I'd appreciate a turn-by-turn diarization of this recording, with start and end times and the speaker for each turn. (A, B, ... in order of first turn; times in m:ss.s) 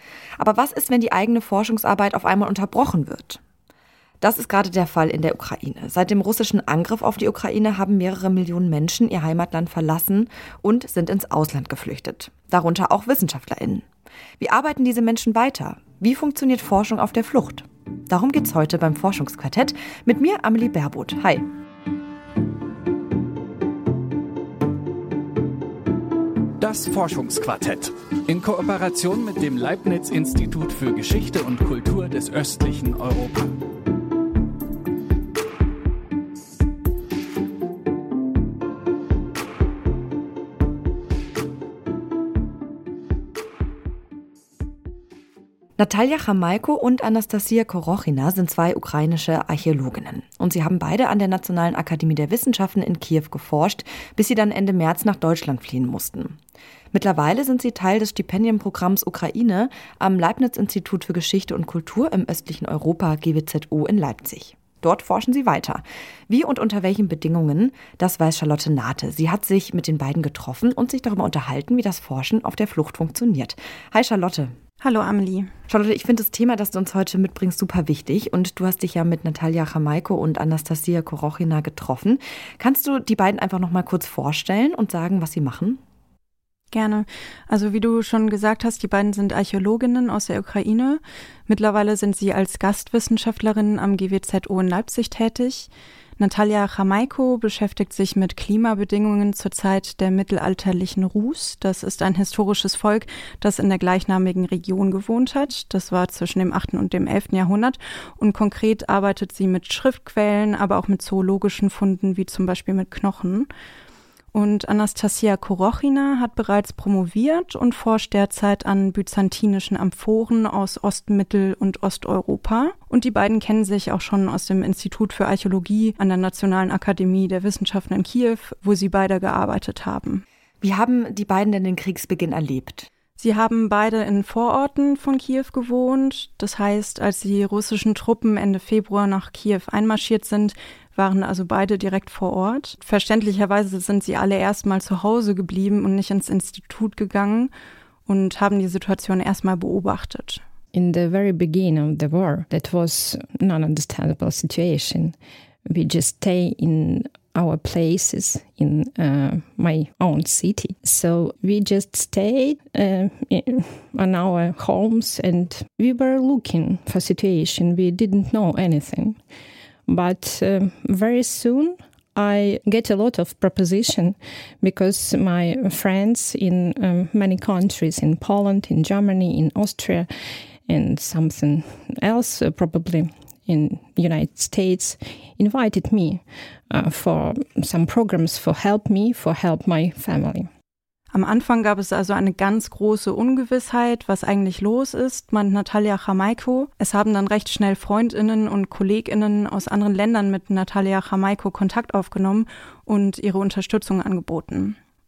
0:00.4-0:03.4 A
0:04.2-0:13.8 A
0:14.4-0:21.4 A
0:26.6-0:33.5 B
0:45.8-0:56.4 A
0:56.9-1:14.5 A
1:14.8-1:15.5 C
1:15.7-1:25.8 A
1:26.7-1:53.5 C
1:54.3-2:10.2 C
2:10.6-2:12.9 A
2:13.2-2:27.5 C
2:28.0-2:30.4 C
2:30.7-2:35.1 D
2:35.6-2:49.2 D
2:49.9-3:00.1 D
3:00.6-3:10.5 D
3:11.1-3:24.8 C